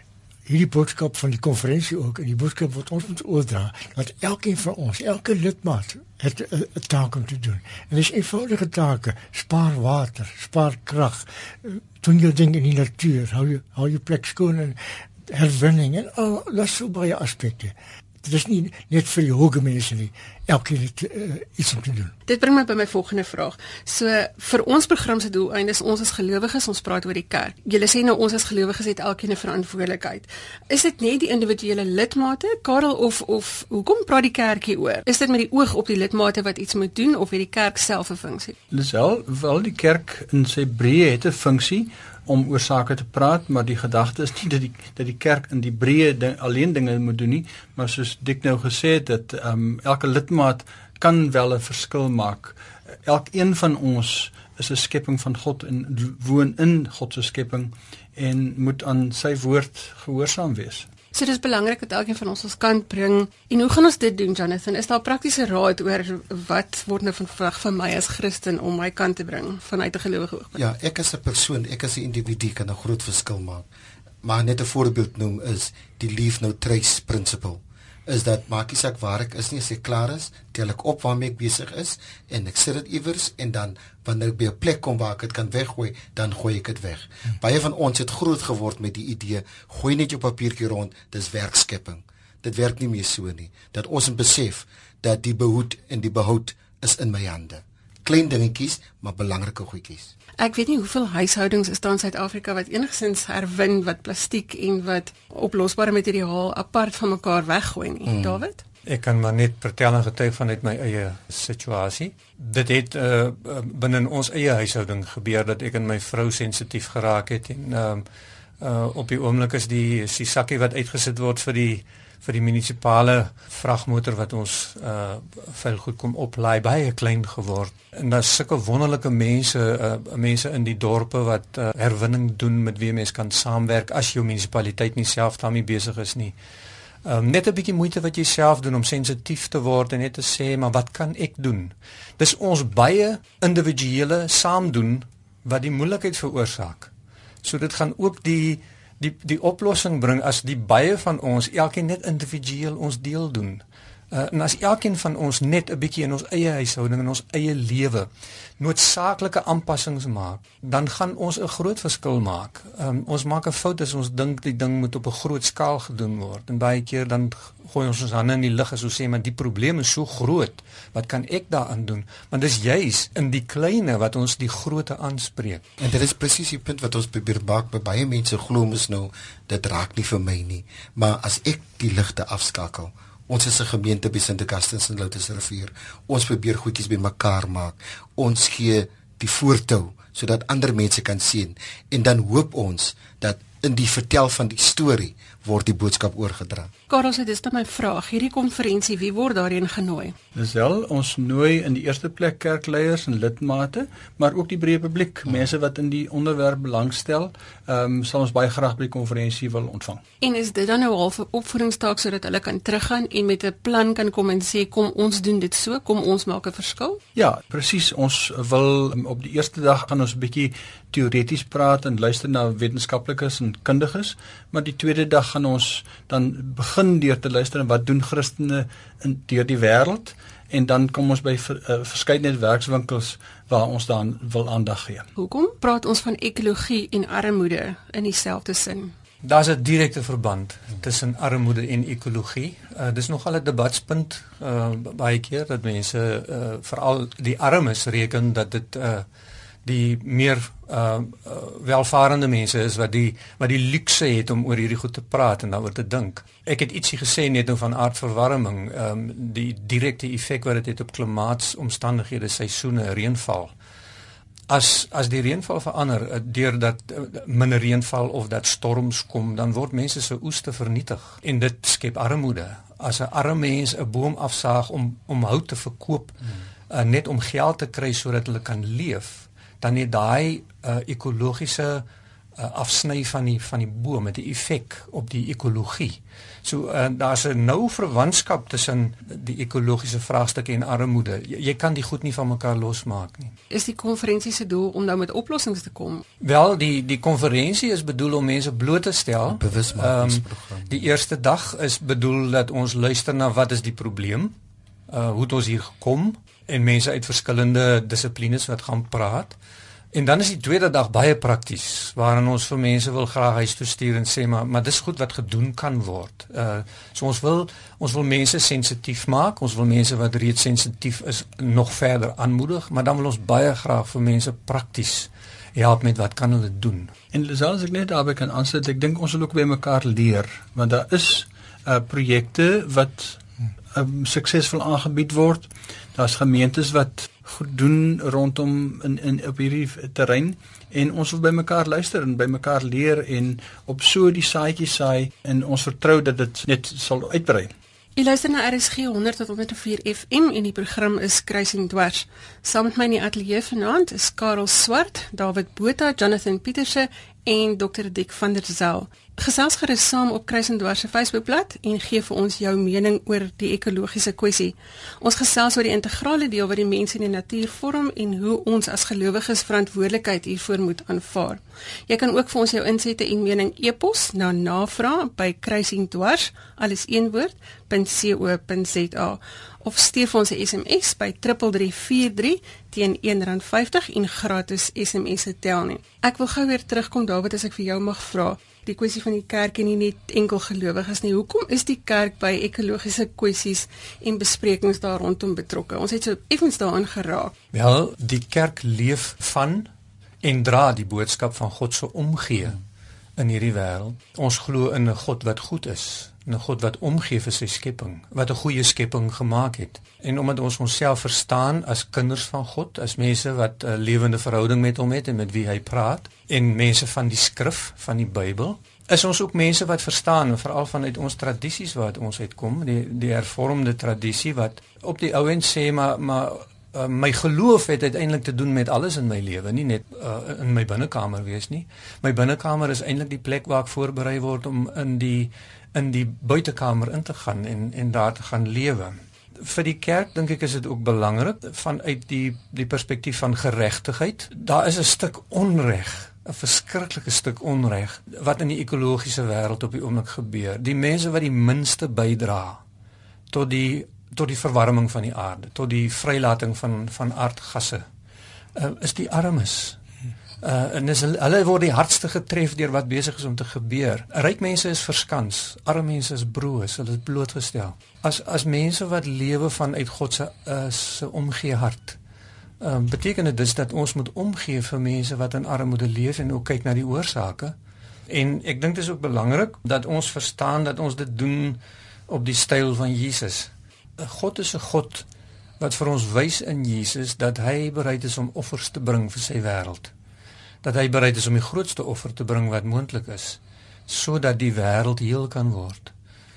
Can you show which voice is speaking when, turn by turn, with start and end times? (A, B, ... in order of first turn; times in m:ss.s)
0:00.4-0:22.1 A
0:22.3-0:38.6 B
0:38.7-1:00.9 C
1:01.1-1:10.6 B
1:10.5-1:13.6 D
1:14.2-1:40.1 D
1:40.4-1:48.6 B
1:48.0-1:48.4 D
1:48.8-1:58.0 E
1:58.6-2:16.3 E
2:17.0-2:26.9 E
2:27.4-2:38.1 E
2:38.6-2:55.6 E
2:55.8-3:16.7 D
3:16.9-3:20.1 B
3:20.3-3:30.0 C
3:30.2-3:37.0 B
3:37.1-3:55.0 C
3:55.2-3:58.9 B
3:59.2-4:09.0 E
4:09.6-4:23.5 E
4:24.5-4:36.1 E
4:36.7-4:41.8 E
4:42.4-4:53.4 E
4:53.5-4:56.0 B
4:56.2-5:04.3 E
4:59.2-5:00.9 D
5:04.9-5:09.3 E
5:09.9-5:26.9 E
5:27.1-5:33.2 C
5:33.7-5:47.5 C
5:48.0-6:37.3 B
6:37.5-6:39.7 E
6:40.2-6:42.6 E
6:43.2-7:32.6 E
7:33.3-7:37.8 E
7:38.5-7:39.8 E
7:40.4-7:52.0 E
7:52.6-7:57.5 E
7:58.1-8:05.0 E
8:05.6-8:09.9 E
8:10.6-8:15.9 E